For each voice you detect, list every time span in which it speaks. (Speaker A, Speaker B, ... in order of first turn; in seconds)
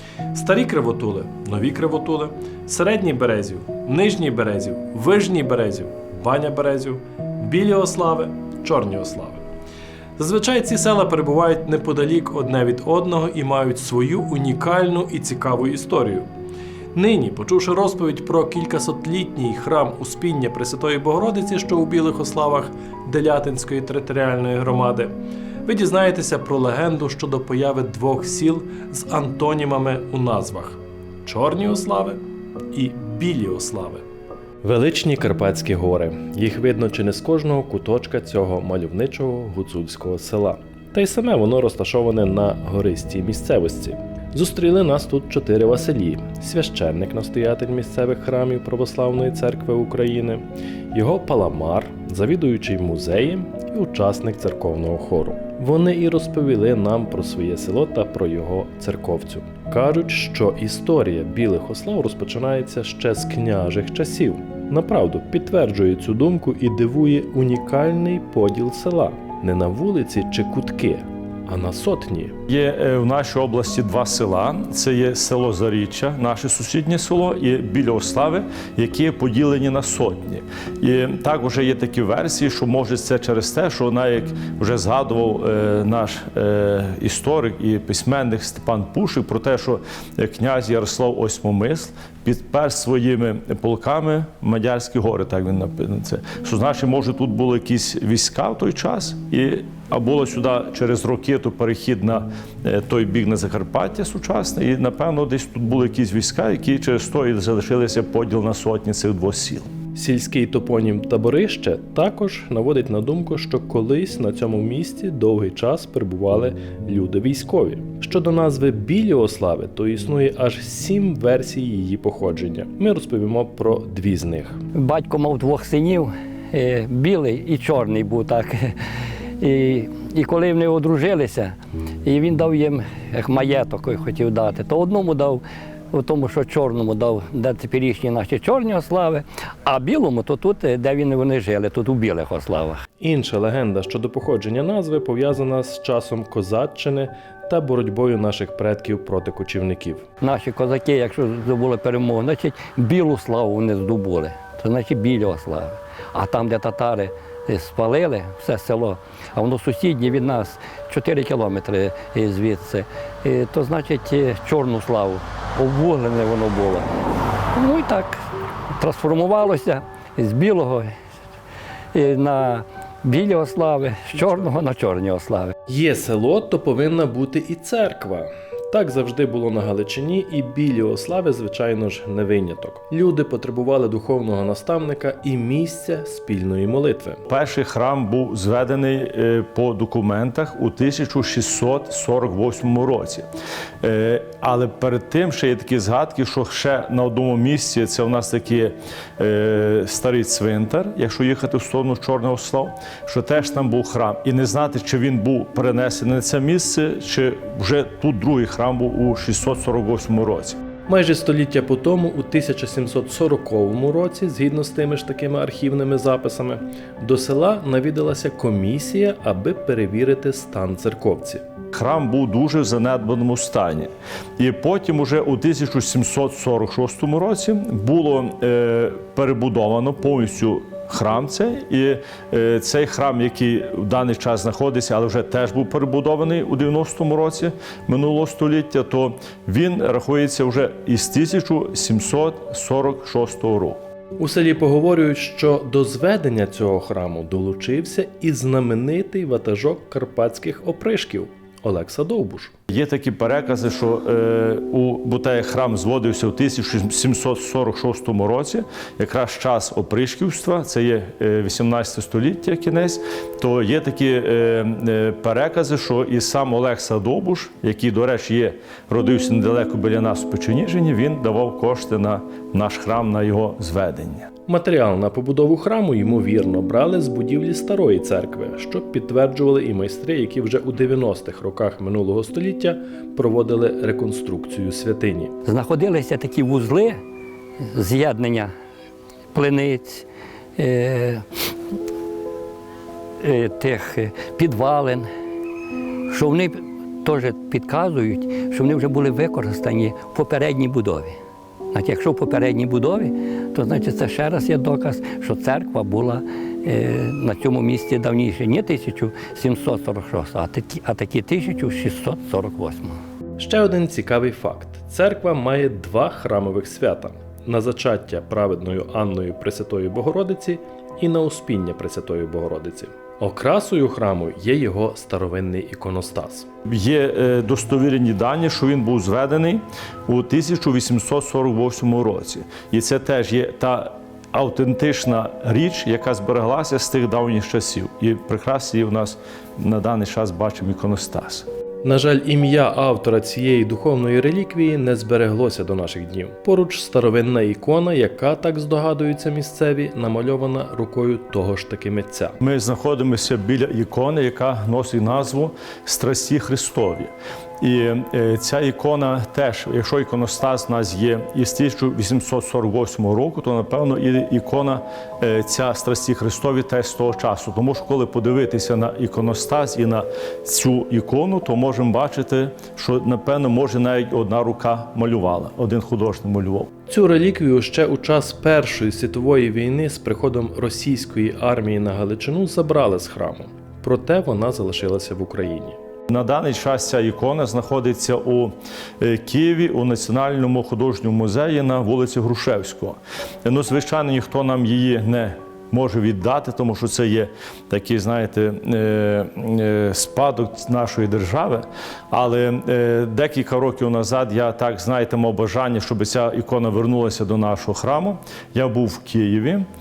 Speaker A: 0.3-9.4, 10.2-16.3, 16.9-32.2, 32.7-34.0, 34.6-72.3, 109.9-124.6, 143.0-150.0, 175.7-187.2, 210.9-221.4, 244.2-252.5, 274.5-285.3, 313.4-326.5, 341.8-352.4, 376.9-385.8
Speaker B: 72.5-109.7, 187.3-193.3, 193.8-210.6, 221.7-243.8, 252.7-274.3, 326.6-341.4, 352.4-376.7, 386.1-409.6
Speaker C: 124.7-128.8, 129.4-131.5, 132.0-142.8, 150.2-166.9, 167.5-168.2, 168.8-170.9, 171.9-175.5, 285.4-287.0, 287.7-288.5, 289.3-290.0, 290.6-291.2, 293.2-295.1, 296.1-301.1, 301.7-313.0